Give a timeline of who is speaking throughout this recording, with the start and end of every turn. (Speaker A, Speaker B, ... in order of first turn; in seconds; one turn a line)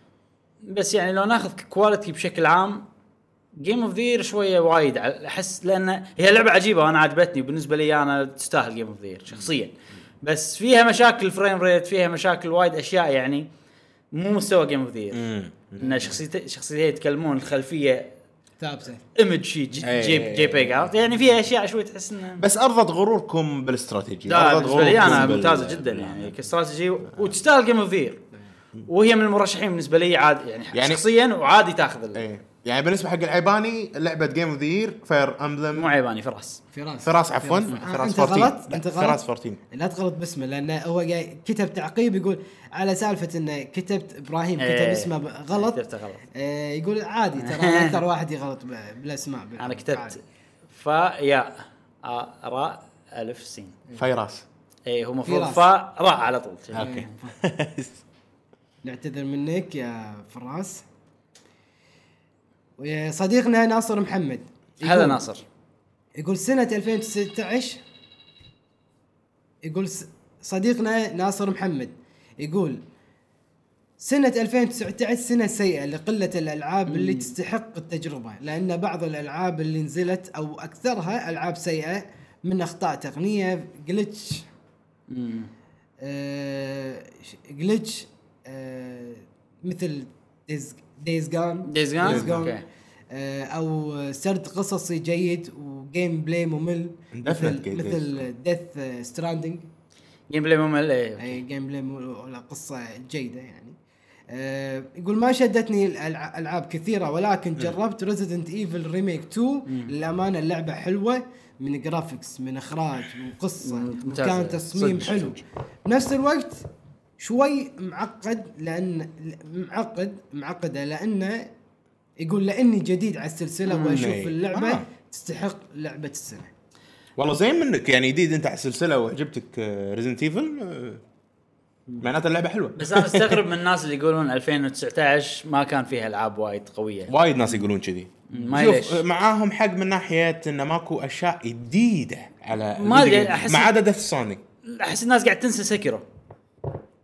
Speaker A: 0.7-2.9
Speaker A: 3.6-13.5
Speaker A: 14.1-15.3
Speaker B: 15.1-16.2
Speaker A: 15.8-18.1
Speaker C: 18.6-19.0
Speaker A: 19.1-22.4
Speaker B: 19.8-20.9
Speaker B: 22.4-26.4
Speaker A: 24.3-28.2
Speaker A: 28.9-32.2
Speaker B: 30.7-31.0
Speaker B: 32.1-35.9
Speaker A: 35.7-36.6
Speaker C: 36.7-45.8
Speaker B: 37.0-39.6
Speaker A: 44.6-46.2
Speaker C: 46.3-50.2
Speaker A: 47.4-48.0
Speaker A: 49.6-50.2
Speaker A: 50.7-53.8
Speaker B: 54.0-54.4
Speaker A: 54.9-57.1
Speaker C: 55.2-55.7
Speaker B: 56.7-58.0
Speaker C: 56.8-57.4
Speaker C: 58.8-60.8
Speaker C: 62.8-65.2
Speaker A: 64.8-65.4
Speaker C: 66.2-67.8
Speaker C: 69.6-72.8
Speaker C: 74.0-84.5
Speaker A: 76.9-77.3
Speaker A: 85.1-85.5
Speaker C: 86.0-99.7
Speaker A: 91.7-92.6
Speaker B: 92.0-92.4
Speaker B: 97.1-98.1
Speaker A: 100.3-101.4
Speaker C: 101.2-103.8
Speaker C: 104.3-116.7
Speaker A: 109.7-109.9
Speaker A: 113.6-115.4
Speaker C: 117.2-121.5
Speaker C: 122.2-126.5
Speaker A: 123.6-124.1
Speaker B: 123.9-124.8
Speaker B: 127.2-131.0
Speaker B: 132.0-133.4
Speaker A: 132.8-137.6
Speaker B: 137.1-144.4
Speaker A: 138.3-139.0
Speaker A: 142.8-143.7
Speaker A: 144.6-146.1